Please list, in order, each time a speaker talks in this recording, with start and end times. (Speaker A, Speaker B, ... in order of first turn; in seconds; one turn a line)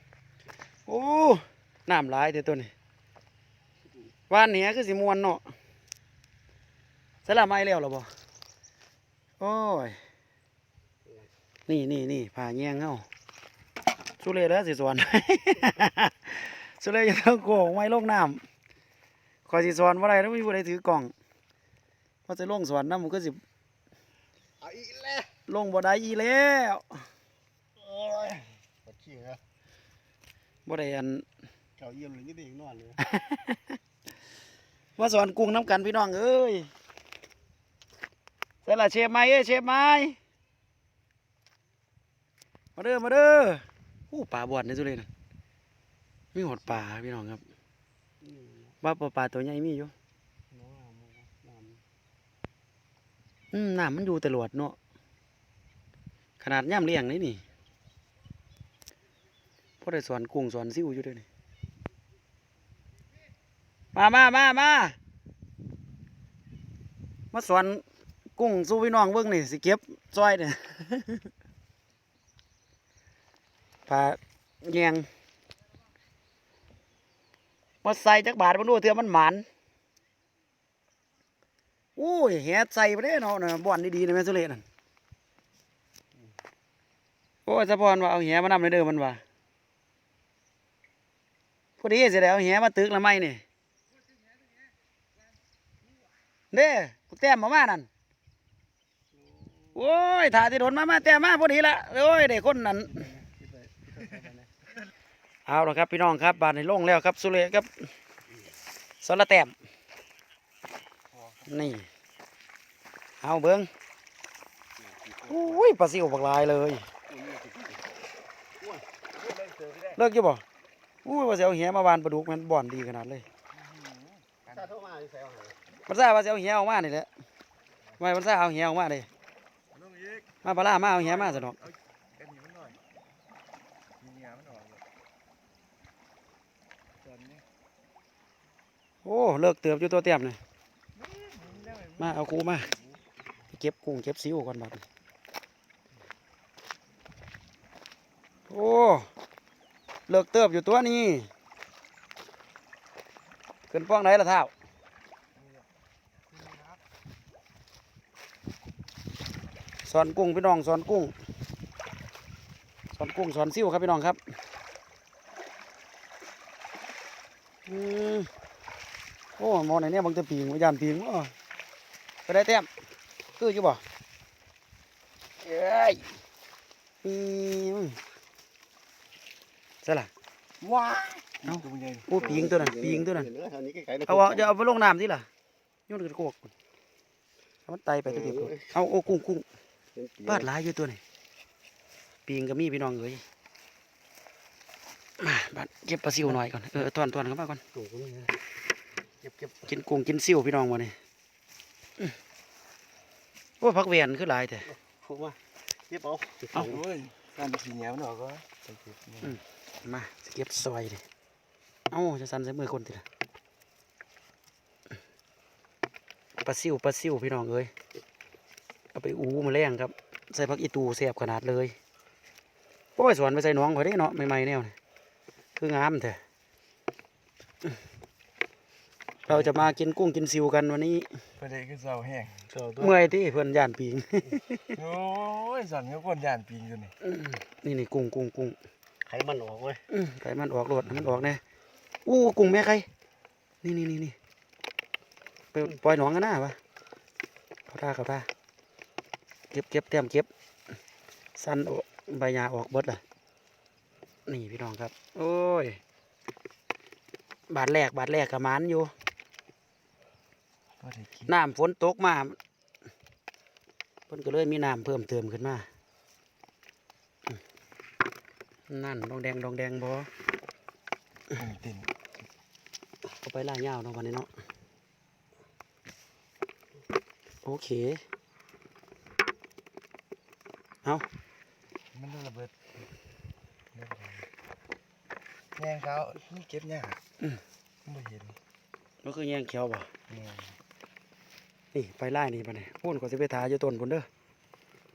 Speaker A: 0.9-2.7
Speaker A: 4.3-5.5
Speaker A: 7.2-8.1
Speaker A: 9.4-10.0
Speaker A: 11.7-13.1
Speaker A: 14.2-18.4
Speaker A: 19.5-21.1
Speaker A: 22.3-23.4
Speaker B: 24.7-25.2
Speaker A: 25.5-27.1
Speaker B: 27.9-29.4
Speaker A: 30.7-31.2
Speaker B: 31.8-33.0
Speaker A: 33.0-33.6
Speaker A: 35.0-36.7
Speaker A: 38.7-40.2
Speaker A: 42.8-45.1
Speaker A: 46.3-47.4
Speaker B: 48.2-48.7
Speaker A: 48.8-49.9
Speaker B: 50.5-51.8
Speaker A: 53.5-54.8
Speaker A: 56.4-57.4
Speaker A: 59.8-61.3
Speaker A: 63.9-65.0
Speaker A: 67.3-67.8
Speaker A: 68.4-71.3
Speaker A: 73.9-75.1
Speaker A: 77.8-79.5
Speaker A: 82.0-84.6
Speaker A: 87.5-89.2
Speaker A: 91.8-93.4
Speaker A: 96.5-97.9
Speaker A: 99.8-103.1
Speaker B: 103.0-104.5
Speaker A: 105.5-107.9
Speaker A: 109.0-109.5
Speaker C: 111.1-111.5
Speaker A: 111.5-111.9
Speaker A: 113.2-113.7
Speaker A: 115.2-116.9
Speaker C: 119.2-120.0
Speaker A: 120.0-120.4
Speaker A: 121.0-123.3
Speaker C: 123.5-124.8
Speaker B: 124.5-125.6
Speaker A: 125.9-127.1
Speaker A: 128.0-129.1
Speaker C: 129.7-130.3
Speaker A: 130.4-131.6
Speaker C: 130.9-132.8
Speaker C: 134.0-134.8
Speaker C: 137.0-137.4
Speaker A: 139.0-140.4
Speaker C: 141.0-142.8
Speaker A: 142.0-142.7
Speaker A: 143.5-144.9
Speaker A: 148.5-149.1
Speaker A: 150.1-151.3
Speaker A: 153.7-154.5
Speaker C: 155.4-155.7
Speaker C: 156.4-156.8
Speaker A: 159.8-161.1
Speaker A: 162.9-164.2
Speaker A: 167.7-168.3
Speaker A: 169.4-171.3
Speaker A: 172.3-172.7
Speaker A: 173.4-173.8
Speaker A: 175.4-176.1
Speaker A: 177.0-178.0
Speaker A: 179.8-180.1
Speaker C: 180.6-182.1
Speaker A: 181.4-183.3
Speaker B: 182.2-184.4
Speaker A: 184.0-185.3
Speaker A: 185.9-186.5
Speaker A: 187.7-189.5
Speaker B: 188.2-188.6
Speaker B: 190.0-190.4
Speaker A: 190.2-191.0
Speaker A: 192.3-193.2
Speaker A: 195.2-197.6
Speaker B: 197.8-198.3
Speaker B: 199.2-199.5
Speaker A: 199.7-201.0
Speaker A: 203.6-204.7
Speaker B: 204.9-206.8
Speaker C: 206.5-209.4
Speaker A: 209.2-211.1
Speaker A: 211.9-213.1
Speaker A: 216.4-217.7
Speaker A: 218.9-221.8
Speaker A: 223.0-224.8
Speaker A: 225.6-226.2
Speaker A: 229.3-231.1
Speaker C: 229.3-229.6
Speaker C: 231.4-232.4
Speaker B: 232.5-232.9
Speaker A: 232.8-234.7
Speaker C: 234.8-236.9
Speaker A: 237.0-238.6
Speaker B: 239.1-239.8
Speaker A: 239.9-241.4
Speaker A: 242.1-242.9
Speaker A: 243.6-244.2
Speaker A: 245.5-246.6
Speaker A: 247.7-248.3
Speaker A: 249.5-250.3
Speaker A: 251.4-253.0
Speaker A: 254.3-255.8
Speaker A: 257.5-258.9
Speaker C: 260.8-261.3
Speaker A: 261.3-262.4
Speaker A: 264.1-265.7
Speaker A: 268.7-270.1
Speaker C: 271.3-271.9
Speaker A: 273.2-274.3
Speaker A: 277.4-278.0
Speaker C: 281.9-282.5
Speaker C: 283.7-284.3
Speaker C: 285.6-287.0
Speaker C: 287.9-288.4
Speaker A: 289.0-289.9
Speaker C: 290.1-290.6
Speaker A: 291.7-294.1